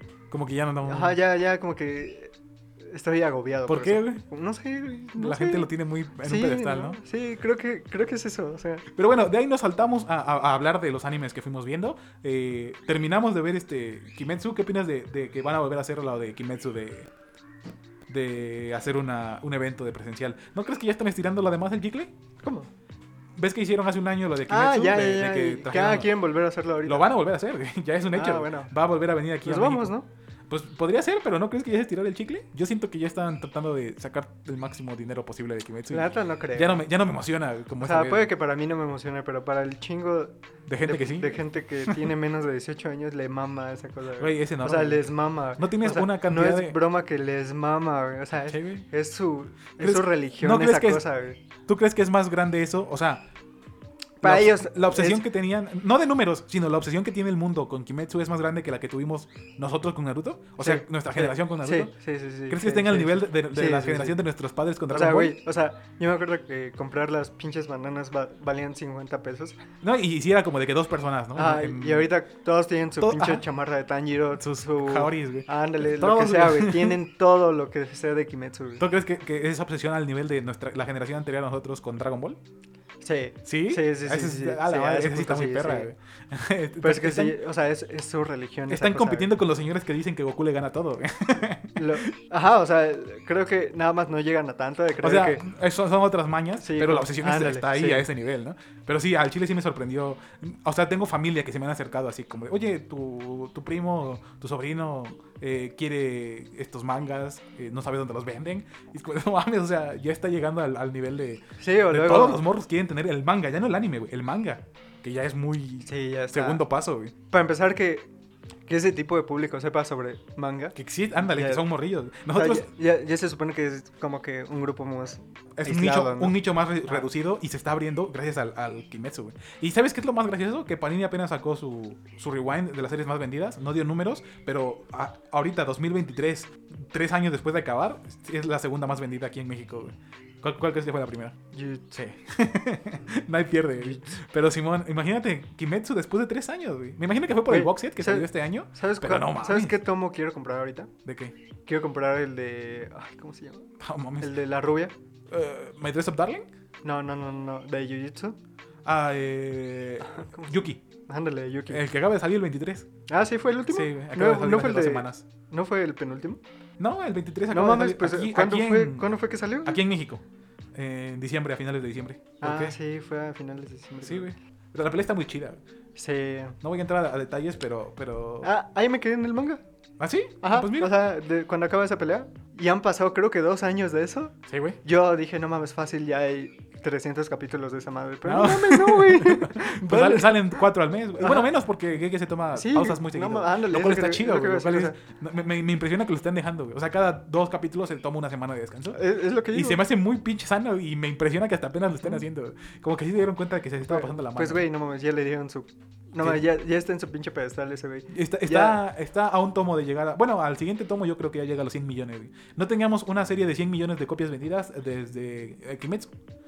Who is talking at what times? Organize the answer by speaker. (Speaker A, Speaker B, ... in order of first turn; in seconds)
Speaker A: 0.3-1.2, 3.7-4.2, 5.2-7.0, 8.9-17.1, 18.1-22.1, 23.4-26.1, 26.9-29.9, 30.5-38.3, 40.7-42.1, 44.2-46.8, 48.5-48.9, 49.8-51.0, 51.7-53.2, 54.2-61.9, 62.5-65.3, 69.8-72.1, 73.0-73.4, 74.4-77.0, 78.8-82.4, 83.4-87.4, 88.7-92.1, 95.0-117.1, 120.8-122.7, 125.6-141.3, 141.9-149.8, 151.0-151.3, 153.8-154.3, 155.3-156.5, 158.8-160.8, 161.7-162.9, 163.7-165.2, 166.8-169.1, 169.6-170.2, 170.7-172.8, 174.0-175.6, 176.6-178.5, 180.0-180.9, 184.5-184.8, 188.2-199.0, 199.5-204.6, 208.1-216.1
Speaker B: 0.8-5.7, 6.2-8.8, 22.4-22.7, 24.5-27.1, 28.1-28.7, 29.4-30.1, 35.9-36.8, 37.8-51.4, 54.2-55.2, 60.6-64.2, 64.9-69.6, 71.3-78.8, 83.0-85.9, 86.8-89.3, 91.8-95.4, 96.6-98.0, 111.6-112.5, 115.8-116.6, 117.3-118.1, 118.7-121.6, 122.3-127.1, 141.5-142.0, 143.8-144.1, 147.5-150.9, 151.7-153.7, 154.2-154.9, 156.8-158.4, 160.0-161.8, 163.1-166.4, 167.5-169.8, 172.4-174.3, 175.9-176.6, 178.4-179.6, 180.4-190.6, 191.2-191.5, 192.5-194.9, 198.9-199.8, 203.8-208.8